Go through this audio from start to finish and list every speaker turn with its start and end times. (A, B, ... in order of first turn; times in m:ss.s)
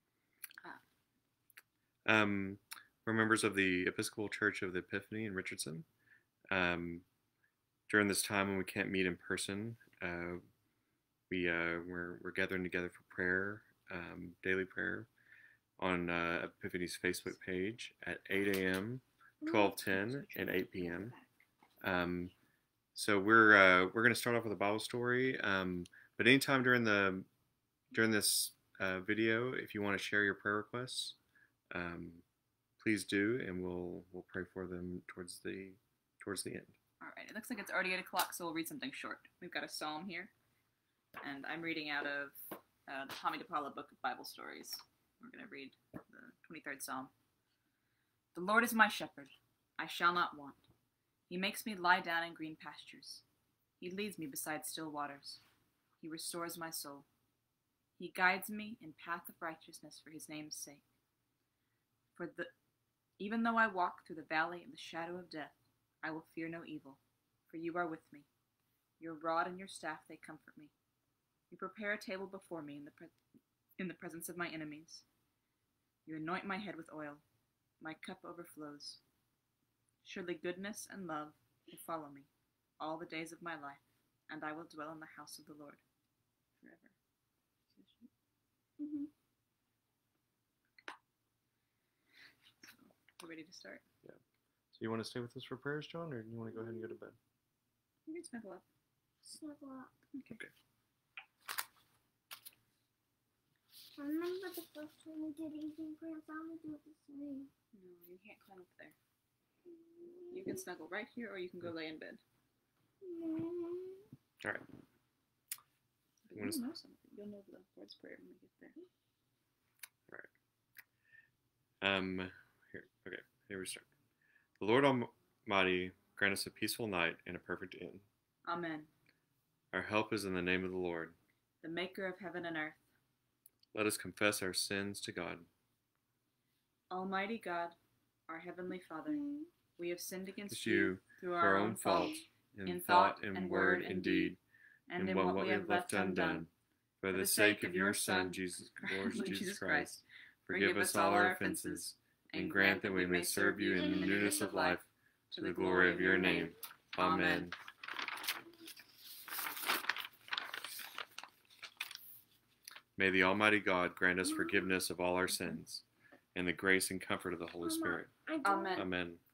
0:02.0-0:05.8 A
0:06.5-0:07.0 A
0:07.9-0:10.4 A
0:11.3-0:15.1 A
0:15.8-0:21.1 A
0:19.4-0:19.7 B
0:19.8-0:21.4 C
0:21.8-0:22.3 A
0:22.9-0:27.3 A
0:27.9-0:31.2 A
0:31.7-0:32.2 A
0:32.8-0:36.8 A
0:37.0-0:40.3 C
0:41.2-0:47.1 C
0:48.3-0:50.6 C
0:51.3-0:53.2 C
0:53.8-0:55.4 C
0:56.0-0:57.1 C
0:58.0-1:00.8 C
1:02.1-1:02.5 C
1:03.2-1:08.3 C
1:09.0-1:10.7 C
1:11.5-1:13.1 C
1:13.8-1:15.0 C
1:16.0-1:17.2 C
1:17.8-1:19.0 C
1:20.0-1:25.8 C
1:26.6-1:26.9 C
1:27.7-1:28.1 C
1:28.8-1:29.1 B
1:32.6-1:33.8 C
1:34.7-1:37.2 A
1:36.5-1:37.0 B
1:38.0-1:38.6 C
1:39.2-1:39.9 B
1:40.1-1:40.4 C
1:44.0-1:47.5 B
1:47.7-1:49.0 C
1:49.7-1:50.6 B
1:50.3-1:52.2 C
1:53.0-1:54.0 B
1:56.2-1:58.8 C
1:56.3-1:56.6 A
2:01.8-2:03.9 A
2:04.6-2:08.0 A
2:08.4-2:08.9 C
2:09.7-2:11.2 A
2:11.6-2:12.8 C
2:13.7-2:15.5 A
2:16.9-2:17.8 C
2:18.3-2:19.2 C
2:19.1-2:19.5 B
2:19.8-2:26.5 C
2:20.5-2:24.4 A
2:25.0-2:37.6 A
2:27.1-2:37.5 C
2:43.0-2:48.2 A
2:44.2-2:44.8 B
2:47.6-2:48.8 B
2:48.4-2:48.8 C
2:48.7-2:49.2 A